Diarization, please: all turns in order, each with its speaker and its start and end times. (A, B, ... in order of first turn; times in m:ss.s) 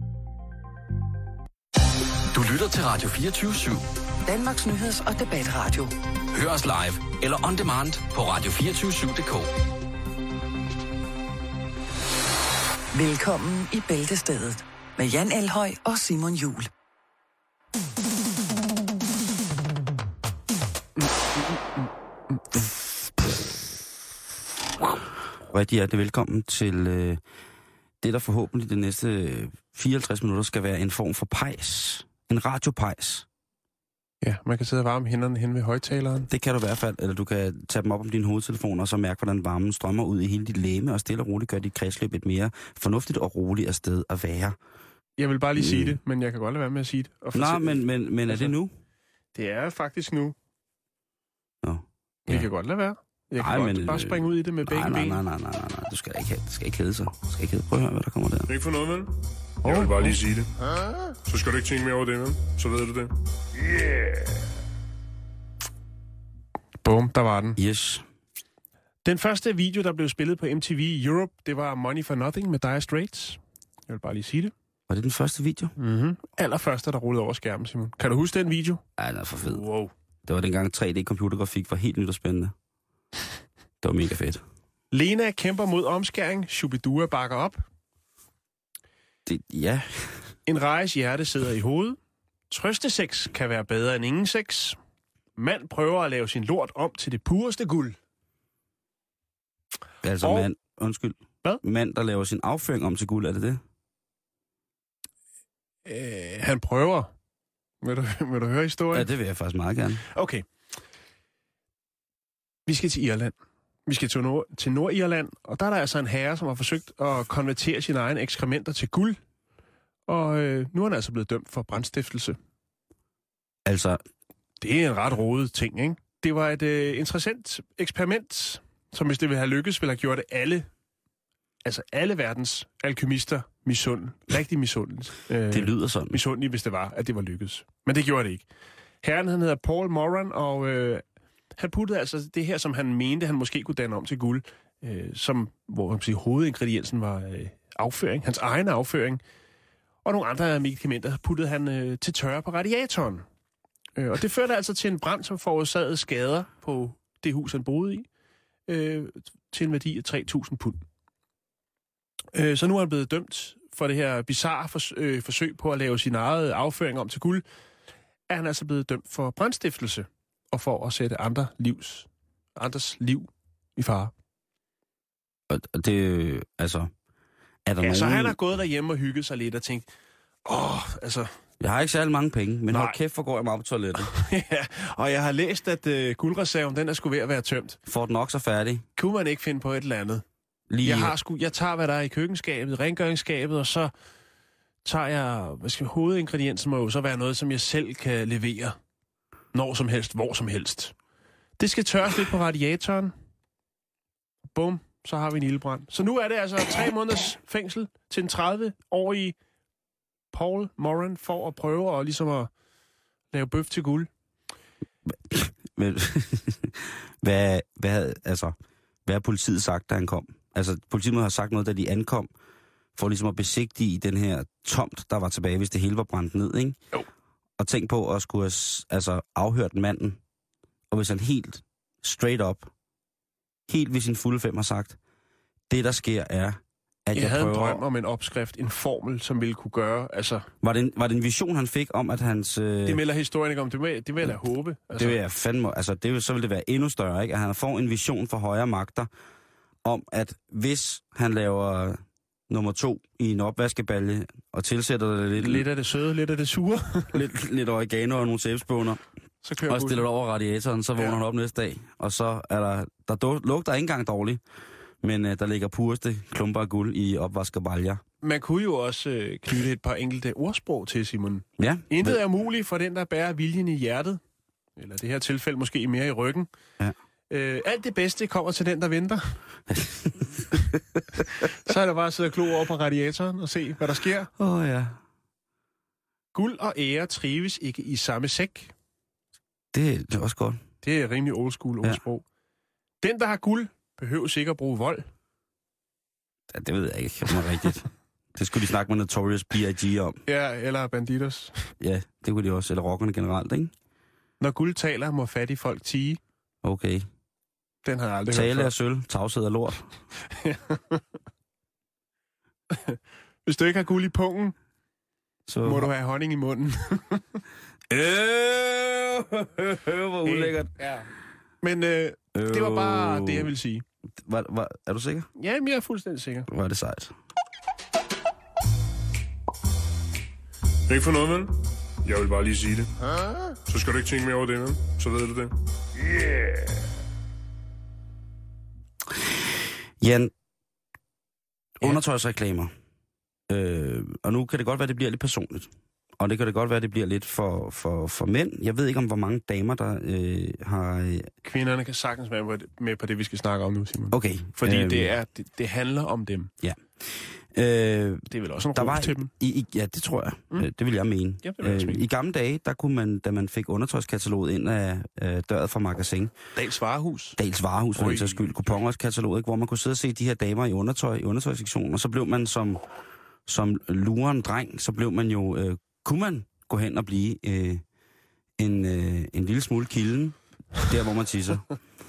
0:02.4-0:03.8 A
0:04.3-0:06.4 B
0:06.4-0:09.5 A
0:12.9-0:16.7 B
0:25.5-0:27.2 C
0:28.0-0:33.2 C
0:34.2-0:36.3 D
0:36.3-0:44.6 C
0:45.2-0:48.5 D
0:45.6-0:46.0 C
0:47.3-0:48.7 C
0:49.3-0:50.4 D
0:51.6-0:52.5 C
0:52.3-0:55.2 D
0:53.4-0:58.5 C
0:58.5-0:59.1 E
0:59.6-1:00.2 D
0:59.6-1:00.5 E
1:01.2-1:03.1 E
1:06.8-1:07.6 D
1:07.6-1:08.0 C
1:09.0-1:14.5 D
1:14.9-1:15.8 C
1:15.8-1:18.8 D
1:19.0-1:19.6 C
1:19.4-1:19.9 D
1:20.3-1:22.5 C
1:23.8-1:24.4 C
1:24.9-1:27.6 D
1:29.3-1:30.3 C
1:30.5-1:32.0 D
1:32.5-1:34.8 D
1:35.4-1:38.0 D
1:40.0-1:43.6 C
1:40.2-1:40.5 D
1:45.8-1:47.1 D
1:47.8-1:49.1 D
1:48.9-1:50.0 C
1:50.1-1:50.5 D
1:52.7-1:53.4 D
1:53.9-1:59.2 D
2:00.1-2:02.4 D
2:03.7-2:04.0 C
2:04.6-2:10.7 D
2:11.6-2:18.5 D
2:15.5-2:16.2 C
2:19.0-2:21.0 D
2:21.6-2:29.2 D
2:30.0-2:33.2 D
2:34.0-2:38.1 D
2:38.7-2:40.8 D
2:42.3-2:47.4 D
2:48.3-2:54.1 D
2:55.5-2:56.9 C
2:57.7-2:58.4 C
2:57.8-2:59.9 D
3:00.4-3:01.3 D
3:01.6-3:04.1 C
3:02.7-3:03.0 D
3:04.0-3:07.8 D
3:07.9-3:08.8 C
3:09.0-3:10.2 D
3:10.7-3:11.2 C
3:10.8-3:13.9 D
3:14.8-3:18.8 D
3:19.5-3:21.0 D
3:21.6-3:23.1 D
3:24.5-3:29.4 D
3:30.3-3:32.5 D
3:33.3-3:34.1 D
3:35.3-3:38.5 C
3:39.1-3:42.3 C
3:43.0-3:46.8 C
3:47.6-3:50.2 C
3:50.9-3:52.7 C
3:53.7-3:55.0 C
3:55.7-3:57.8 C
3:57.1-4:00.5 D
4:00.6-4:03.0 C
4:02.8-4:05.2 D
4:05.0-4:09.1 C
4:09.8-4:12.0 C
4:12.5-4:15.7 C
4:15.4-4:17.2 D
4:17.1-4:19.0 C
4:19.4-4:20.0 D
4:19.7-4:24.4 C
4:25.0-4:28.0 C
4:28.2-4:34.2 D
4:31.6-4:32.2 C
4:34.8-4:36.5 D
4:37.3-4:39.4 D
4:39.7-4:40.8 C
4:41.4-4:44.3 D
4:44.4-4:45.0 C
4:46.3-4:48.7 D
4:49.7-4:50.6 C
4:50.8-4:52.2 D
4:53.0-4:55.0 D
4:56.5-5:00.2 C
5:00.3-5:01.7 D
5:01.8-5:03.7 C
5:04.4-5:06.2 D
5:06.6-5:07.0 C
5:07.8-5:08.7 D
5:08.3-5:09.9 C
5:10.3-5:11.0 D
5:12.7-5:14.6 D
5:15.5-5:15.9 C
5:15.6-5:17.4 D
5:17.9-5:20.7 C
5:20.2-5:21.1 D
5:21.6-5:23.8 D
5:22.4-5:23.5 C
5:24.3-5:25.3 C
5:25.4-5:26.5 D
5:26.5-5:27.1 C
5:30.9-5:31.5 E
5:32.0-5:32.9 E
5:33.1-5:33.5 D
5:33.7-5:35.6 E
5:40.0-5:40.3 C
5:41.8-5:42.7 C
5:43.5-5:51.3 C
5:51.4-5:56.5 D
5:54.1-5:55.1 C
5:56.6-6:06.3 C
5:58.3-5:59.3 D
6:01.4-6:02.1 D
6:06.6-6:07.4 D
6:07.4-6:12.8 C
6:08.0-6:08.8 D
6:13.5-6:17.8 C
6:18.6-6:21.6 C